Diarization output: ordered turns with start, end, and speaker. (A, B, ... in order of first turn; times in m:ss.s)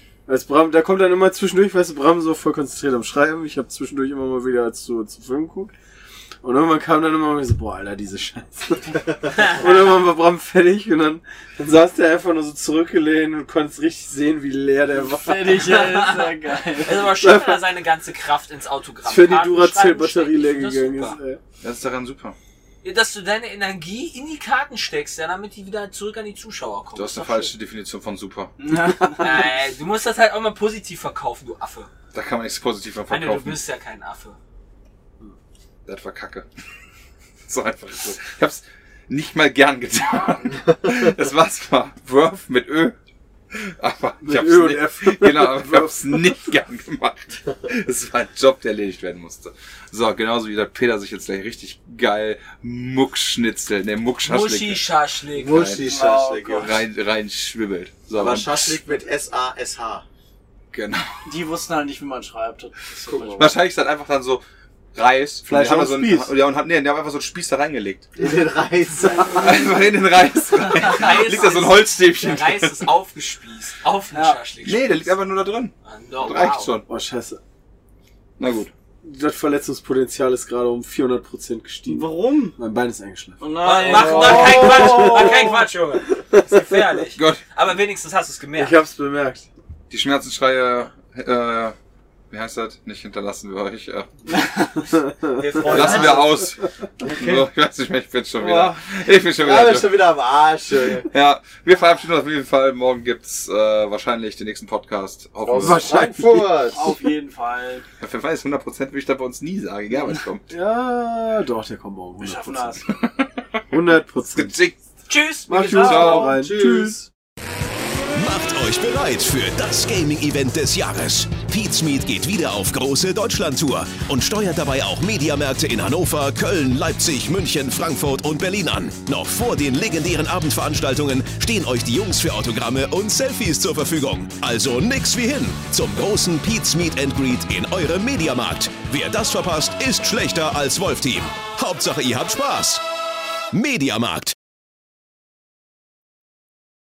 0:00.3-0:05.7 A
0:06.4-0:15.8 A
0:15.0-0:17.1 B
0:15.6-0:21.2 C
0:17.2-0:17.6 A
0:19.0-0:21.4 A
0:21.6-0:22.4 D
0:22.8-0:27.5 C
0:26.9-0:28.5 D
0:28.6-0:29.5 B
0:29.2-0:31.9 C
0:32.1-0:33.6 D
0:33.1-0:34.4 C
0:35.8-0:36.4 D
0:37.4-0:43.0 D
0:43.5-0:54.9 D
0:44.2-0:46.5 A
0:54.2-0:55.7 C
0:55.3-0:56.8 E
0:55.5-0:56.0 D
0:55.7-0:56.8 B
0:56.5-0:58.8 D
0:58.2-1:00.0 E
1:00.7-1:01.2 D
1:01.2-1:03.6 B
1:03.3-1:04.4 D
1:04.9-1:08.1 D
1:05.4-1:06.3 A
1:08.2-1:09.7 E
1:09.3-1:12.9 D
1:10.7-1:15.1 C
1:14.1-1:14.4 B
1:14.6-1:16.8 D
1:15.8-1:16.7 C
1:16.9-1:17.4 A
1:18.4-1:18.7 D
1:19.0-1:25.6 A
1:21.8-1:22.6 B
1:23.4-1:25.4 B
1:23.6-1:28.8 C
1:26.2-1:26.8 A
1:27.2-1:27.4 D
1:28.5-1:29.5 A
1:29.9-1:31.7 D
1:32.3-1:34.1 D
1:34.9-1:35.8 A
1:35.4-1:36.4 E
1:35.5-1:36.2 C
1:35.6-1:40.2 D
1:35.8-1:36.2 B
1:37.0-1:37.5 E
1:38.4-1:38.8 E
1:39.4-1:41.1 E
1:40.8-1:46.4 D
1:45.4-1:46.7 A
1:45.6-1:46.9 E
1:46.7-1:47.9 B
1:48.0-1:50.5 D
1:50.5-1:52.8 A
1:52.2-1:52.9 B
1:52.8-1:53.6 D
1:53.7-1:54.5 A
1:54.2-1:54.8 D
1:55.1-1:56.3 C
1:55.5-1:57.0 A
1:55.7-1:56.3 D
1:55.9-1:57.1 E
1:58.1-2:22.8 F
2:23.5-2:24.3 F